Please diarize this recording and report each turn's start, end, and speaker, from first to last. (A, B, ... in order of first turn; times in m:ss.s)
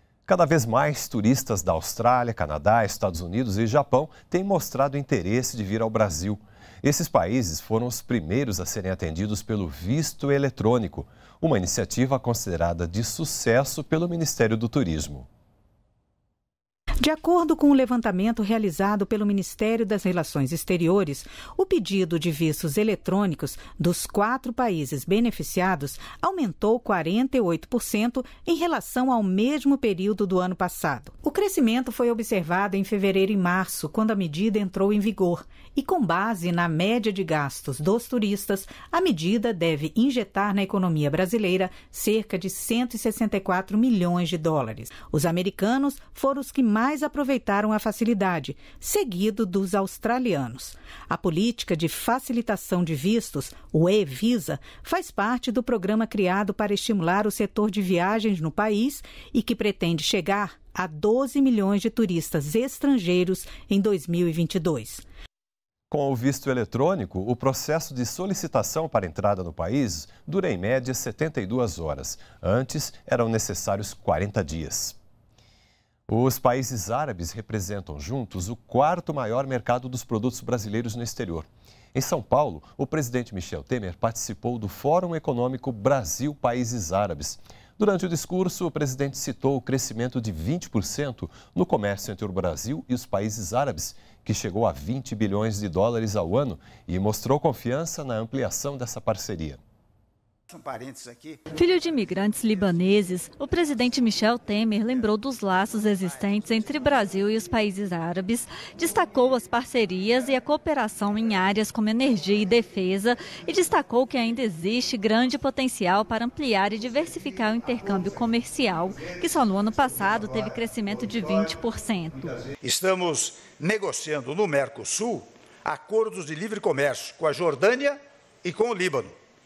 0:00.2-0:15.3 A
0:17.0-1:05.0 B
1:05.9-1:15.0 A
1:16.1-1:39.6 A
1:40.5-1:41.4 C
1:41.5-2:02.3 D
1:46.0-1:46.4 C
2:02.6-2:09.1 C